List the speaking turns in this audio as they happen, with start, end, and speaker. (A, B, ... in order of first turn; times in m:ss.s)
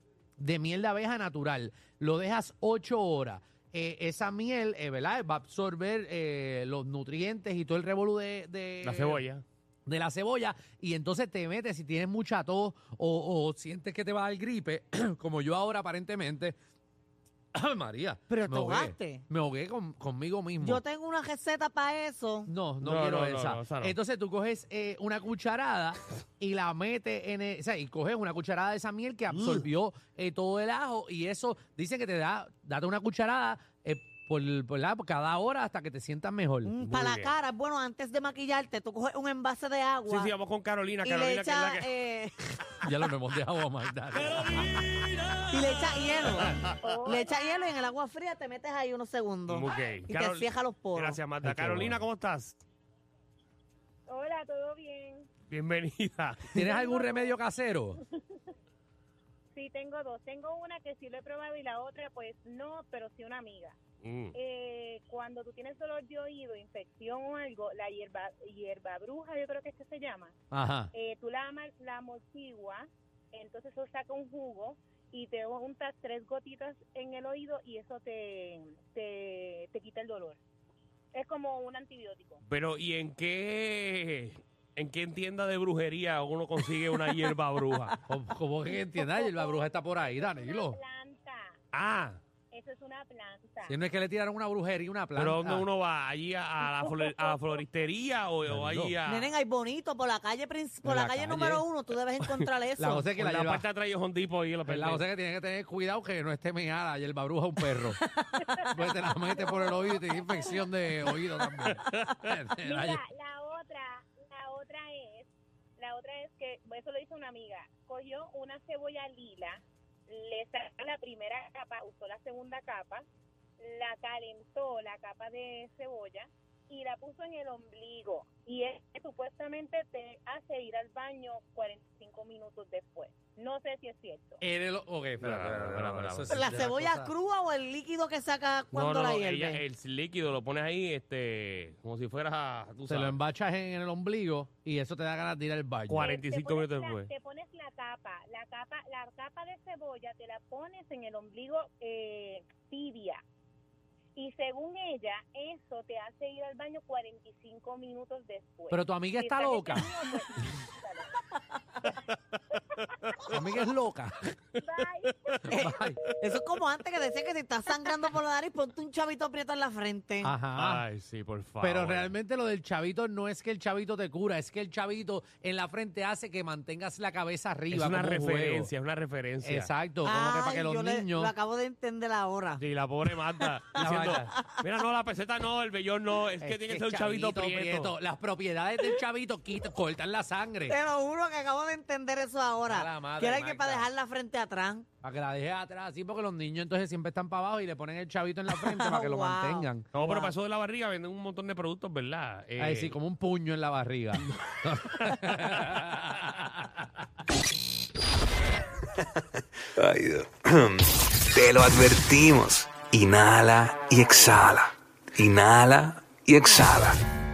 0:00.4-0:09.2 A
0:08.8-0:09.4 B
0:09.9-0:16.6 A
0:17.5-0:20.8 A
0:18.3-0:19.2 C
0:20.6-0:22.5 C
0:22.5-0:36.7 A
0:22.8-0:24.0 B
0:29.3-0:29.6 B
0:36.6-0:40.3 C
0:36.8-0:37.3 B
0:40.1-0:41.9 B
0:41.0-0:42.6 C
0:42.8-0:44.8 A
0:44.2-0:46.7 B
0:45.5-0:51.2 C
0:46.6-0:47.7 D
0:49.5-0:52.6 B
0:51.4-0:52.1 A
0:54.1-0:55.3 D
0:55.5-0:56.6 B
0:56.5-0:58.0 A
0:56.6-0:57.4 D
0:58.1-0:58.4 D
0:59.5-1:03.8 D
1:04.0-1:04.3 B
1:04.3-1:10.3 D
1:10.5-1:10.9 A
1:10.9-1:20.4 D
1:21.1-1:22.4 D
1:22.4-1:28.0 B
1:28.1-1:30.8 A
1:28.7-1:31.6 D
1:31.7-1:32.2 B
1:32.5-1:33.8 D
1:33.6-1:35.7 A
1:35.2-1:39.3 B
1:36.8-1:37.4 D
1:38.4-1:39.0 A
1:39.0-1:43.1 C
1:40.8-1:41.6 A
1:42.8-1:43.6 A
1:43.2-1:45.0 B
1:44.6-1:53.0 A
1:49.1-1:50.6 D
1:51.6-1:52.3 B
1:52.6-2:03.0 D
2:03.6-2:14.4 D
2:14.4-2:17.1 A
2:15.2-2:16.5 B
2:16.3-2:19.6 C
2:18.7-2:23.2 B
2:22.9-2:26.1 A
2:25.9-2:27.1 B
2:26.0-2:33.2 D
2:34.2-2:41.1 D
2:38.7-2:39.9 A
2:41.8-2:42.8 D
2:43.3-2:44.3 A
2:44.5-2:45.8 D
2:45.5-2:50.3 C
2:45.5-2:46.0 A
2:50.2-2:50.9 A
2:50.6-2:52.1 B
2:51.6-2:58.7 A
2:57.7-2:59.7 B
2:59.4-3:01.3 A
3:00.0-3:02.6 C
3:02.6-3:07.9 B
3:03.4-3:04.6 C
3:03.7-3:04.4 A
3:06.4-3:10.8 A
3:10.7-3:14.8 C
3:12.6-3:13.9 A
3:15.0-3:19.9 A
3:18.5-3:20.3 C
3:19.9-3:23.0 B
3:22.6-3:26.9 A
3:24.3-3:26.2 B
3:29.8-3:37.0 E